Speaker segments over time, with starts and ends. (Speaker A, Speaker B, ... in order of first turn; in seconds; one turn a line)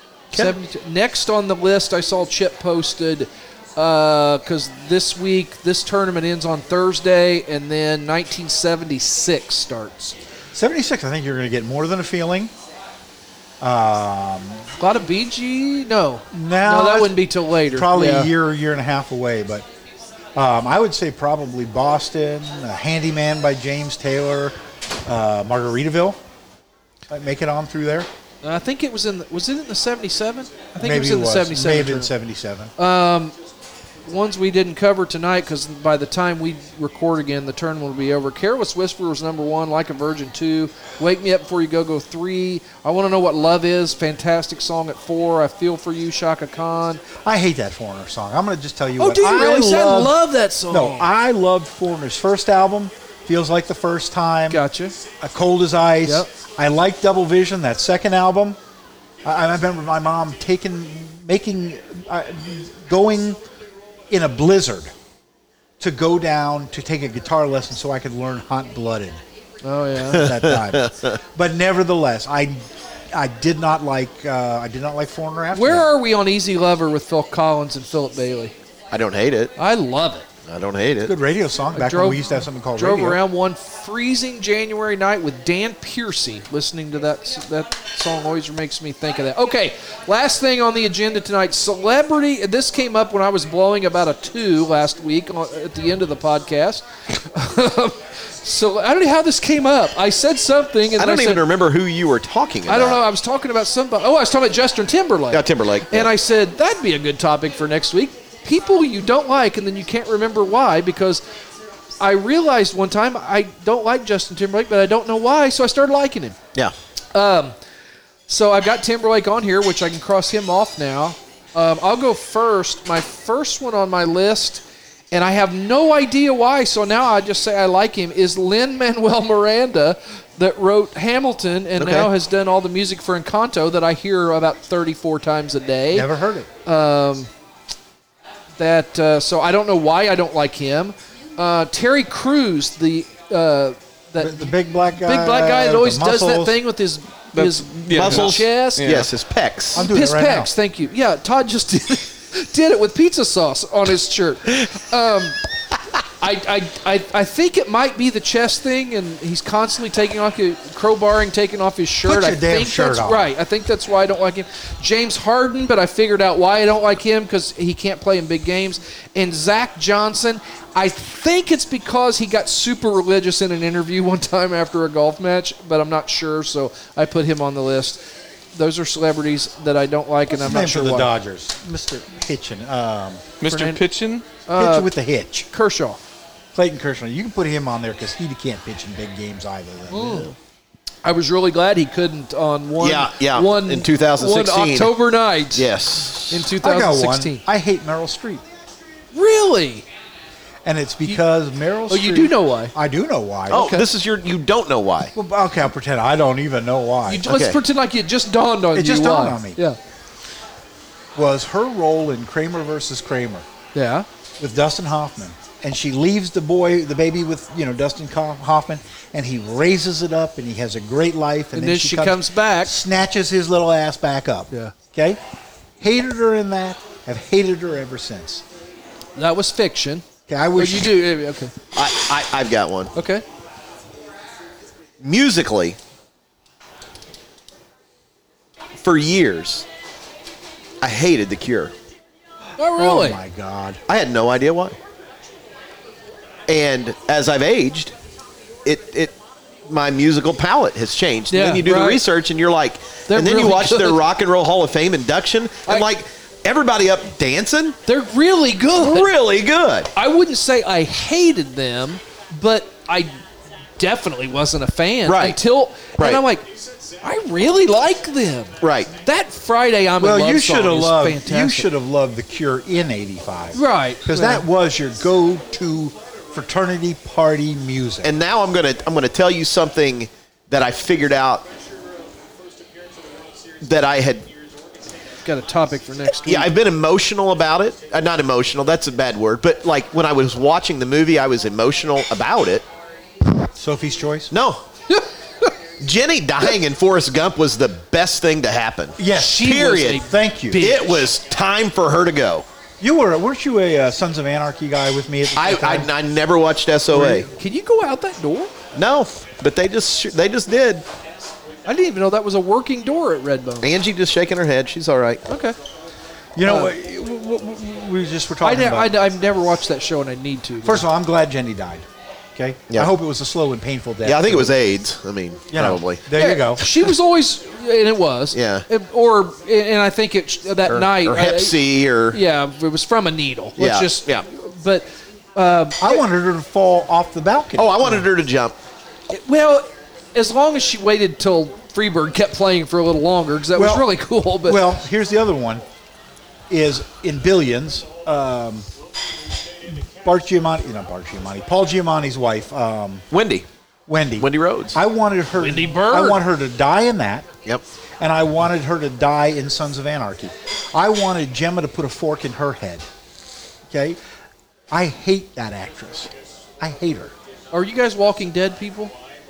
Speaker A: 0.3-10.2
Speaker B: 10.5-12.5
Speaker B: 13.6-14.6
Speaker A: 14.8-18.3
Speaker B: 16.3-19.7
Speaker B: 20.4-26.2
Speaker B: 27.1-28.1
Speaker A: 28.4-32.1
Speaker B: 30.8-32.7
Speaker A: 32.8-33.3
Speaker A: 34.1-47.0
Speaker B: 47.2-50.2
Speaker A: 49.0-51.1
Speaker B: 50.7-54.6
Speaker A: 54.5-55.0
Speaker B: 55.2-58.6
Speaker B: 59.2-63.4
Speaker B: 64.1-64.9
Speaker B: 65.8-69.2
Speaker A: 69.6-70.3
Speaker B: 70.0-72.6
Speaker C: 70.1-71.2
Speaker B: 73.1-75.9
Speaker A: 75.5-78.5
Speaker C: 78.9-79.5
Speaker A: 79.6-80.3
Speaker C: 80.5-81.2
Speaker B: 81.0-83.2
Speaker A: 81.7-101.5
Speaker C: 101.0-103.0
Speaker A: 102.7-111.2
Speaker C: 105.3-106.1
Speaker A: 112.0-116.4
Speaker A: 117.1-117.5
Speaker A: 118.3-136.1
Speaker C: 131.8-132.1
Speaker B: 135.9-136.5
Speaker A: 136.7-137.3
Speaker A: 138.6-149.0
Speaker B: 144.2-146.6
Speaker D: 147.3-149.1
Speaker C: 147.9-149.8
Speaker B: 149.8-150.5
Speaker A: 149.8-155.4
Speaker A: 156.2-178.0
Speaker B: 162.1-163.3
Speaker A: 178.5-181.1
Speaker B: 180.3-183.2
Speaker D: 183.4-184.3
Speaker A: 183.4-183.8
Speaker A: 184.5-184.9
Speaker B: 184.6-185.5
Speaker A: 185.5-186.0
Speaker B: 186.5-190.3
Speaker A: 189.9-190.3
Speaker A: 191.0-195.7
Speaker C: 192.8-195.0
Speaker C: 195.6-196.5
Speaker A: 196.3-197.4
Speaker B: 196.6-198.4
Speaker A: 199.1-199.9
Speaker B: 200.7-203.8
Speaker A: 201.9-202.7
Speaker A: 203.5-203.8
Speaker C: 203.5-205.1
Speaker B: 205.1-207.3
Speaker A: 207.1-209.8
Speaker C: 207.3-207.6
Speaker B: 208.7-209.6
Speaker B: 211.2-213.5
Speaker A: 213.8-214.1
Speaker B: 214.4-225.2
Speaker A: 221.6-222.8
Speaker B: 225.8-228.4
Speaker A: 229.2-230.1
Speaker B: 230.3-231.0
Speaker A: 230.6-231.5
Speaker C: 231.7-232.9
Speaker A: 232.9-233.2
Speaker C: 235.0-235.8
Speaker C: 238.8-239.7
Speaker C: 240.8-241.7
Speaker A: 242.6-243.2
Speaker B: 242.7-243.8
Speaker C: 243.9-244.8
Speaker C: 246.5-247.9
Speaker C: 248.7-257.8
Speaker A: 251.3-252.0
Speaker A: 253.1-254.0
Speaker A: 257.9-259.1
Speaker C: 258.8-259.9
Speaker A: 259.9-263.1
Speaker A: 263.8-266.5
Speaker C: 265.1-265.4
Speaker C: 266.0-266.2
Speaker A: 267.0-271.7
Speaker C: 268.6-268.9
Speaker B: 270.0-278.2
Speaker A: 273.5-274.4
Speaker C: 278.0-281.5
Speaker C: 283.6-284.3
Speaker A: 285.2-286.5
Speaker C: 286.2-292.7
Speaker B: 293.6-294.3
Speaker C: 294.3-294.6
Speaker A: 294.9-295.5
Speaker C: 295.8-300.0
Speaker B: 299.0-300.8
Speaker A: 299.1-301.1
Speaker C: 300.6-302.5
Speaker B: 302.8-305.9
Speaker C: 305.4-307.3
Speaker A: 306.9-308.5
Speaker C: 308.8-310.9
Speaker A: 311.7-313.7
Speaker C: 313.6-315.3
Speaker A: 315.3-315.6
Speaker B: 316.4-319.0
Speaker A: 316.4-316.7
Speaker A: 318.4-320.9
Speaker B: 320.6-324.6
Speaker C: 324.0-326.0
Speaker B: 325.5-326.6
Speaker A: 326.1-331.6
Speaker C: 328.3-328.7
Speaker C: 330.7-332.2
Speaker A: 332.1-336.0
Speaker C: 333.6-334.2
Speaker B: 335.8-338.1
Speaker C: 337.6-338.6
Speaker A: 339.1-344.6
Speaker B: 343.5-345.6
Speaker B: 346.5-348.7
Speaker B: 349.7-353.1
Speaker C: 353.1-353.5
Speaker B: 353.9-357.3
Speaker C: 354.2-354.8
Speaker A: 355.4-356.2
Speaker B: 358.0-362.8
Speaker B: 363.7-364.0
Speaker B: 364.7-367.1
Speaker A: 367.5-368.9